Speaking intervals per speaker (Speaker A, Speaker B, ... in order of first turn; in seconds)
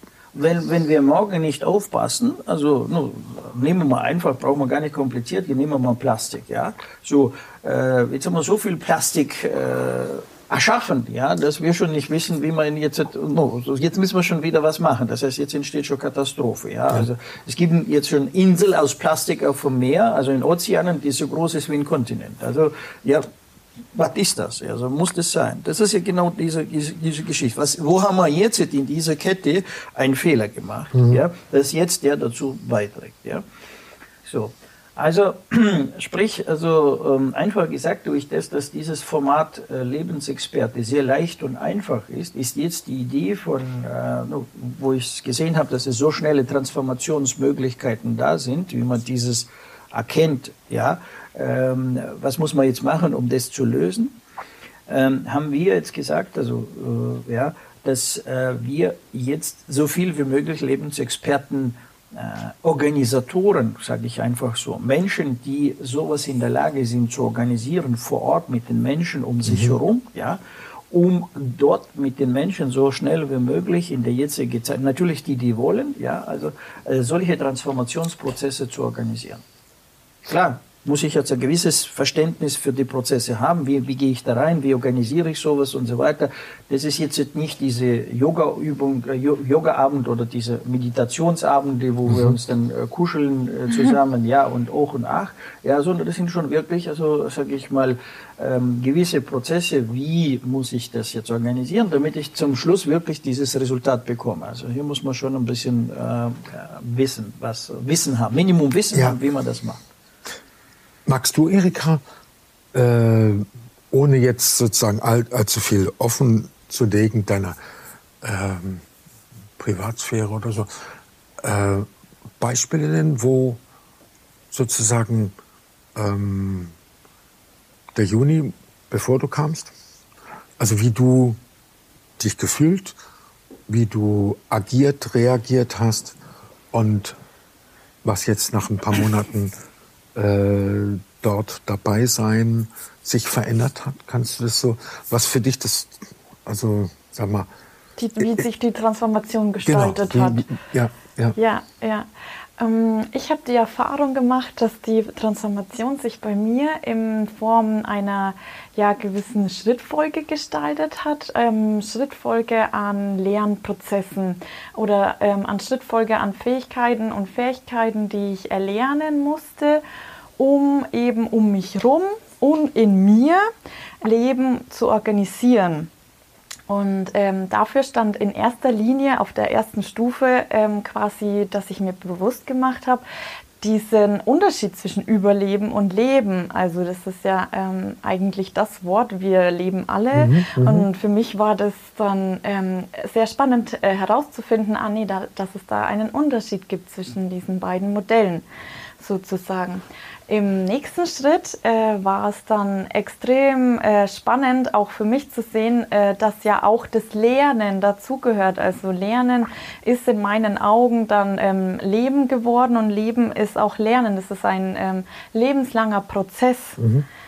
Speaker A: 0.3-23.2, 23.9-33.4, 34.2-54.2, 54.9-70.4, 70.9-79.4, 80.2-109.8
Speaker B: 30.9-31.2, 69.5-69.8, 92.1-92.4, 111.0-112.0, 112.7-117.6, 118.2-118.8, 119.6-120.7, 121.4-121.9, 122.4-123.6, 124.5-125.3, 125.9-126.7, 127.9-129.7, 130.6-131.4, 132.2-132.9, 133.7-136.2, 136.7-137.1, 138.0-139.5, 140.1-147.5, 149.6-151.3, 190.1-190.8, 216.8-217.1
Speaker C: 148.0-150.5, 151.3-152.1, 152.6-169.8, 170.4-173.4, 174.0-175.9, 176.7-183.0, 183.6-198.4, 199.0-216.8